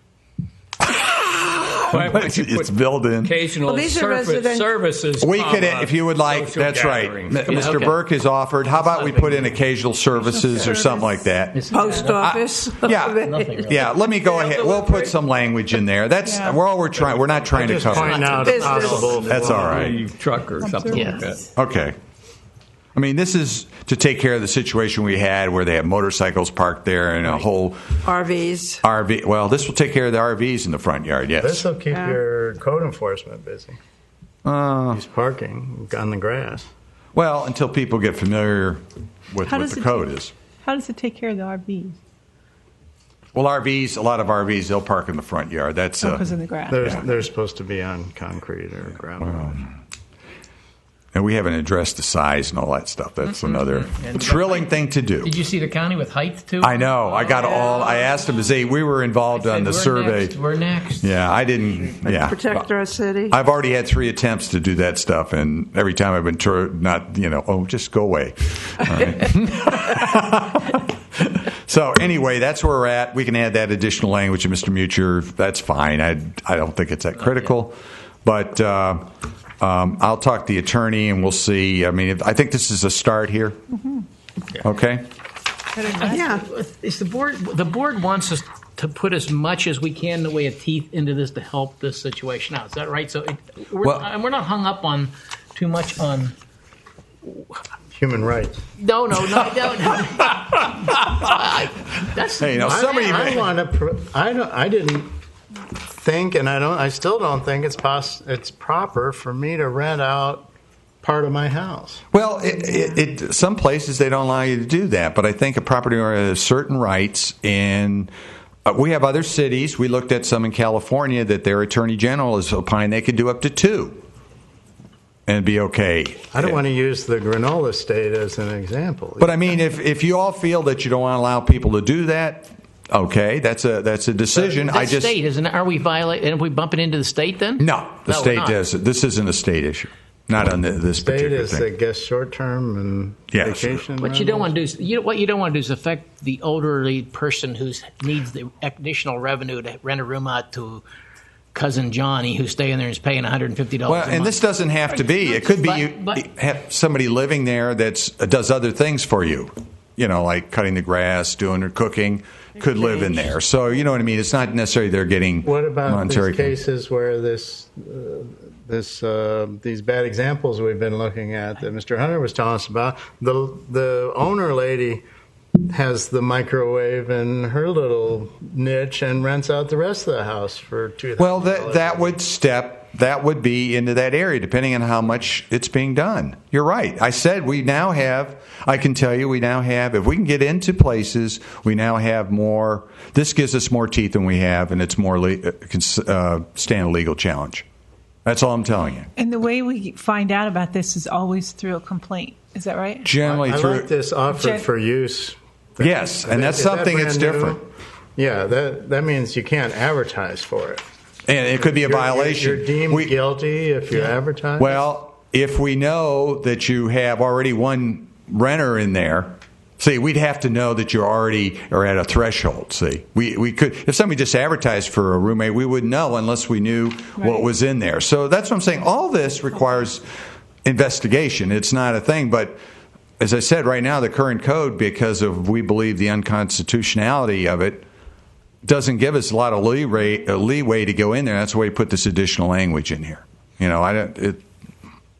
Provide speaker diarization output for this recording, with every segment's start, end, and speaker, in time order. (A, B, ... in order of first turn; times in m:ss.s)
0:01.3-0:03.4 A
0:01.8-0:07.8 B
0:03.6-0:04.7 C
0:05.2-0:20.0 A
0:07.5-0:08.0 D
0:08.7-0:09.6 D
0:10.4-0:11.2 E
0:10.4-0:10.8 C
0:11.5-0:12.4 D
0:11.7-0:13.8 C
0:13.1-0:15.1 D
0:16.2-0:16.6 E
0:17.5-0:19.9 F
0:17.6-0:19.8 D
0:18.4-0:19.2 C
0:19.1-0:21.5 B
0:20.6-0:21.5 E
0:20.9-0:21.3 D
0:20.9-0:21.2 C
0:21.5-0:22.0 A
0:22.9-0:28.0 A
0:28.0-0:28.8 C
0:28.8-0:31.6 A
0:31.4-0:33.8 F
0:31.9-0:32.2 C
0:34.4-0:35.0 A
0:34.9-0:36.7 F
0:37.1-0:40.3 A
0:39.4-0:42.0 E
0:43.3-0:46.3 A
0:46.0-0:47.0 E
0:46.7-0:49.7 F
0:49.2-0:49.7 A
0:51.1-0:55.3 A
0:53.2-0:58.0 D
0:56.6-1:00.4 A
0:59.3-1:01.9 D
1:01.0-1:02.7 A
1:02.0-1:03.4 C
1:03.3-1:19.1 A
1:17.2-1:17.5 D
1:19.6-1:23.6 A
1:24.6-1:25.1 A
1:25.7-1:26.3 E
1:25.9-1:36.3 D
1:26.0-1:26.4 C
1:37.9-1:38.6 F
1:38.8-1:43.4 D
1:42.4-1:43.4 A
1:42.7-1:45.1 F
1:45.9-1:50.5 F
1:51.0-1:52.0 F
1:52.1-1:58.1 A
1:58.6-2:04.0 A
2:05.3-2:06.6 A
2:06.3-2:09.4 F
2:09.2-2:15.1 A
2:14.3-2:18.6 D
2:17.6-2:21.7 A
2:21.0-2:24.5 F
2:23.3-2:23.8 A
2:24.0-2:30.8 D
2:31.5-2:36.2 D
2:33.8-2:46.5 A
2:45.4-2:55.0 F
2:55.7-3:02.1 F
3:01.2-3:17.6 A
3:18.2-3:19.1 A
3:19.2-3:23.1 E
3:23.0-3:23.9 A
3:23.2-3:27.6 F
3:24.3-3:24.7 E
3:25.8-3:27.6 A
3:28.2-3:30.8 F
3:31.3-3:33.2 A
3:31.6-3:34.8 F
3:34.6-3:50.0 A
3:50.6-3:52.6 A
3:53.2-3:57.8 A
3:58.6-4:04.4 A